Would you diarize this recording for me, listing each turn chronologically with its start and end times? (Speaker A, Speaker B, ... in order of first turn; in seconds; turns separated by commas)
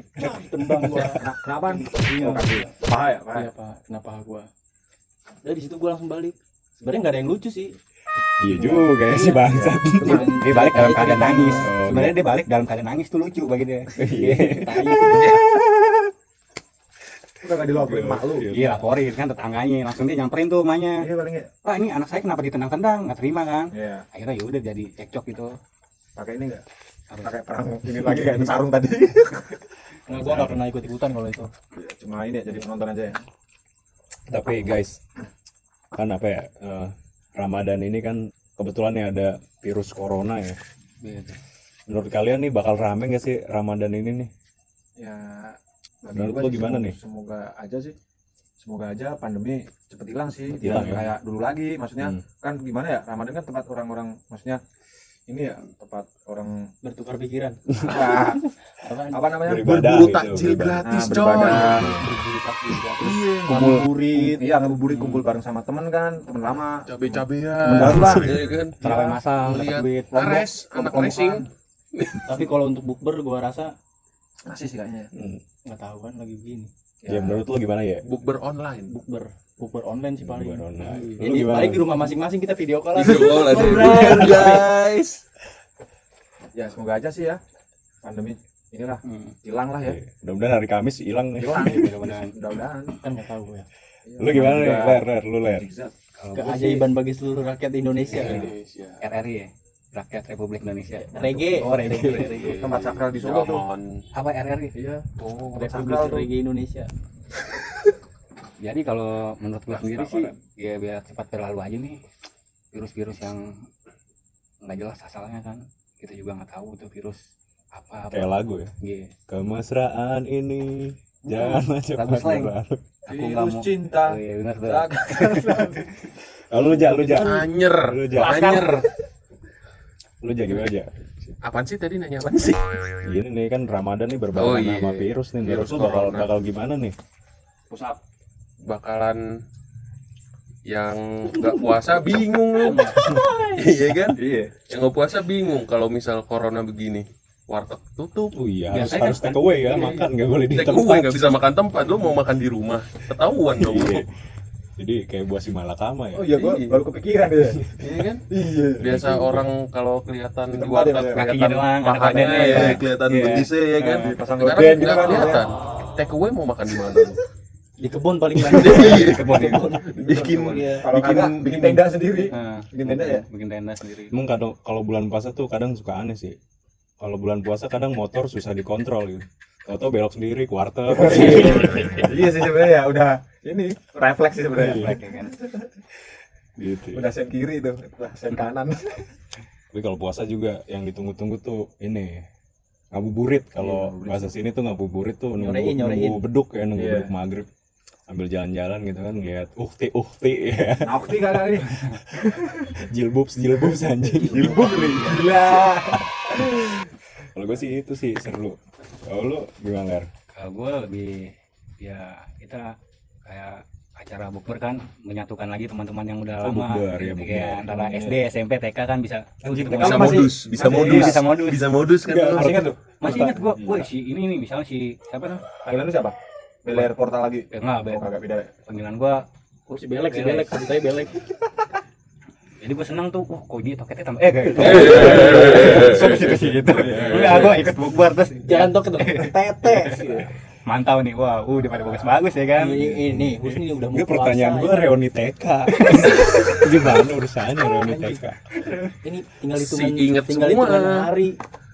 Speaker A: 0.1-2.7, Speaker B: 1.0-3.5, Speaker A: 3.3-4.5, Speaker A: 5.4-7.8, Speaker C: 8.4-12.2, Speaker A: 8.4-11.7, Speaker D: 10.0-14.6, Speaker C: 13.9-15.4, Speaker A: 14.3-15.3, Speaker B: 17.4-18.5, Speaker C: 17.6-18.8, Speaker D: 18.5-21.1, Speaker B: 21.0-21.5, Speaker D: 21.6-25.6, Speaker B: 23.7-24.1, Speaker B: 26.1-26.6, Speaker B: 27.2-29.6, Speaker A: 30.1-31.5, Speaker C: 30.1-30.6, Speaker B: 31.7-33.2, Speaker C: 34.3-35.0, Speaker C: 35.9-40.6, Speaker C: 41.9-44.3, Speaker B: 45.0-47.9, Speaker C: 46.1-47.0, Speaker B: 48.6-54.6, Speaker C: 50.6-51.1, Speaker B: 55.3-56.7, Speaker A: 56.8-59.4, Speaker B: 57.8-58.4, Speaker B: 59.1-59.8, Speaker C: 59.4-61.0, Speaker E: 59.6-61.9, Speaker B: 60.8-61.9, Speaker A: 61.4-64.5, Speaker C: 61.6-62.2, Speaker E: 63.0-63.7, Speaker B: 63.5-69.0, Speaker D: 64.9-65.2, Speaker E: 66.9-68.8, Speaker C: 67.8-68.3, Speaker D: 68.8-71.3, Speaker E: 69.3-72.2, Speaker A: 72.2-73.7, Speaker B: 74.5-75.1, Speaker C: 75.1-75.4, Speaker A: 75.7-76.7, Speaker B: 77.0-77.4, Speaker C: 77.1-78.0, Speaker E: 78.0-78.9, Speaker A: 78.9-84.7, Speaker C: 80.2-81.9, Speaker E: 82.9-85.2, Speaker B: 86.5-87.4, Speaker B: 88.0-90.0, Speaker D: 89.0-89.3, Speaker C: 89.8-91.9, Speaker B: 91.4-93.0, Speaker D: 91.5-92.3, Speaker A: 93.0-93.7, Speaker B: 94.0-95.9, Speaker C: 94.2-95.7, Speaker C: 96.3-96.5, Speaker A: 96.3-98.4, Speaker E: 98.1-99.0, Speaker D: 99.0-102.5, Speaker A: 100.9-102.6, Speaker E: 102.2-104.0, Speaker B: 102.4-103.6, Speaker D: 104.1-104.7, Speaker A: 104.7-106.9, Speaker B: 105.1-106.3, Speaker D: 108.6-112.0, Speaker E: 109.7-110.3, Speaker D: 112.7-113.7, Speaker D: 114.6-119.1, Speaker C: 118.1-118.7, Speaker C: 119.3-122.8, Speaker D: 121.3-122.5, Speaker D: 123.0-125.8, Speaker B: 123.1-125.9, Speaker C: 126.5-128.6, Speaker E: 127.0-128.9, Speaker C: 130.2-131.3, Speaker E: 131.4-132.9, Speaker C: 133.0-136.9, Speaker E: 134.3-136.3, Speaker B: 137.7-138.0, Speaker E: 138.6-139.3, Speaker E: 140.7-154.0, Speaker A: 142.6-143.3, Speaker B: 144.1-144.5, Speaker C: 148.3-151.4, Speaker D: 148.7-149.8, Speaker C: 153.6-154.1, Speaker C: 154.8-156.4, Speaker B: 156.1-157.7, Speaker E: 156.3-156.8, Speaker C: 157.4-157.8, Speaker E: 157.8-158.2, Speaker B: 158.3-159.3, Speaker C: 158.8-159.4, Speaker E: 158.8-167.2, Speaker B: 160.5-161.2, Speaker D: 161.1-164.1, Speaker B: 162.3-162.8, Speaker B: 163.8-165.5, Speaker A: 167.8-170.9, Speaker E: 168.4-171.9, Speaker D: 168.5-169.8, Speaker B: 169.9-173.2, Speaker D: 172.3-174.2, Speaker C: 174.1-176.4, Speaker C: 177.0-182.7, Speaker B: 180.9-185.7, Speaker C: 184.5-185.0, Speaker D: 184.6-185.3, Speaker C: 186.6-187.1, Speaker B: 186.9-189.1, Speaker C: 189.7-192.2, Speaker C: 192.9-197.5, Speaker B: 193.6-194.3, Speaker A: 195.4-196.2, Speaker B: 196.7-197.1, Speaker C: 198.1-206.8, Speaker B: 200.8-202.8, Speaker B: 203.7-206.8, Speaker E: 204.4-205.2, Speaker C: 207.3-210.1, Speaker D: 210.3-221.7, Speaker C: 216.4-217.9, Speaker B: 217.7-218.2, Speaker C: 219.4-220.3, Speaker B: 219.7-221.2, Speaker E: 219.7-222.6, Speaker C: 222.1-223.8, Speaker D: 222.2-225.5, Speaker B: 222.3-223.3, Speaker B: 225.6-228.5, Speaker D: 227.5-229.2, Speaker A: 229.7-231.2, Speaker D: 230.0-230.6, Speaker D: 232.6-242.9, Speaker E: 234.6-236.4, Speaker C: 235.0-237.7, Speaker B: 236.9-237.4, Speaker A: 238.4-240.1, Speaker B: 239.8-240.2, Speaker A: 242.5-245.0, Speaker C: 242.8-248.4, Speaker D: 245.7-246.3, Speaker A: 247.8-248.2, Speaker D: 248.6-248.9, Speaker A: 249.0-251.4, Speaker E: 249.6-251.1